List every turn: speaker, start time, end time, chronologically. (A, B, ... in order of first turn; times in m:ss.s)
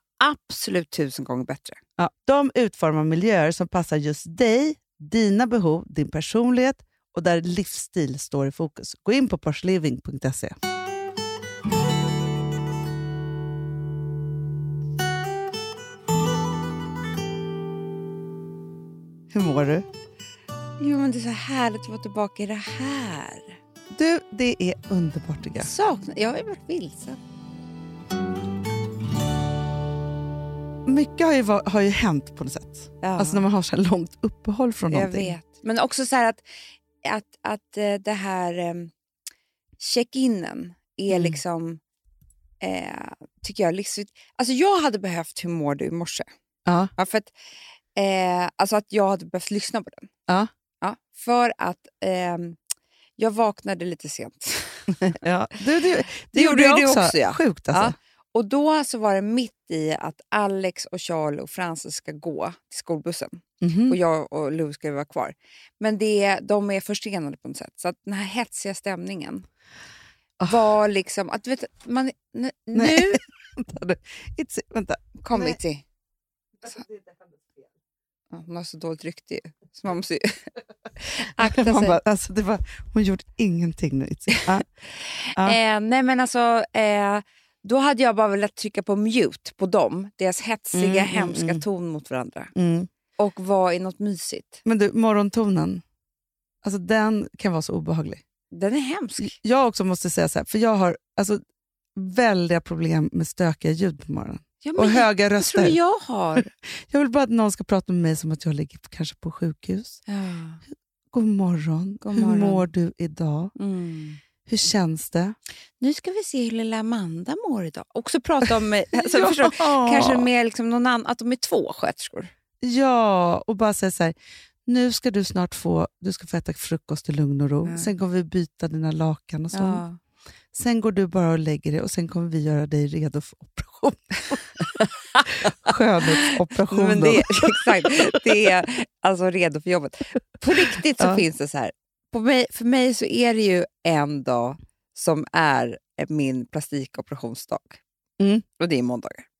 0:00.2-0:01.8 A
0:02.0-0:10.5 B
0:19.3-0:19.8 B
0:20.8-0:23.5 A
0:23.9-0:25.7 B
0:25.6-0:27.2 A
0:30.9-0:35.3 B
0:33.0-0:33.4 A
0:34.9-0:36.4 A
0:37.0-0:38.9 A
0:39.8-0:41.8 A
0:41.1-0:41.4 B
0:42.6-0:46.3 A
0:46.6-0:46.9 B
0:47.0-0:47.3 A
0:47.9-0:50.1 A
0:50.8-0:52.6 A
0:53.2-0:55.2 A
0:55.2-0:57.9 B
0:56.2-1:09.4 A
1:03.6-1:04.0 B
1:10.5-1:13.2 A
1:12.7-1:15.6 B
1:15.2-1:15.8 A
1:16.6-1:17.7 B
1:18.3-1:22.0 A
1:21.4-1:24.6 B
1:25.0-1:32.5 A
1:30.7-1:31.6 B
1:32.6-1:32.9 B
1:33.2-1:34.6 A
1:34.6-1:35.8 B
1:36.6-1:38.2 B
1:38.5-1:39.3 A
1:39.2-1:41.4 B
1:42.0-1:45.8 B
1:44.6-1:46.5 A
1:46.4-1:50.0 B
1:50.1-1:50.6 A
1:51.1-1:53.5 B
1:52.0-1:52.7 A
1:53.6-1:54.2 A
1:54.5-1:55.4 B
1:55.8-2:02.3 A
1:58.9-2:00.2 B
2:02.6-2:04.1 B
2:04.6-2:09.8 B
2:09.5-2:10.0 A
2:10.5-2:14.6 B
2:15.2-2:17.8 B
2:16.2-2:27.8 A
2:28.2-2:28.4 B
2:28.6-2:29.2 A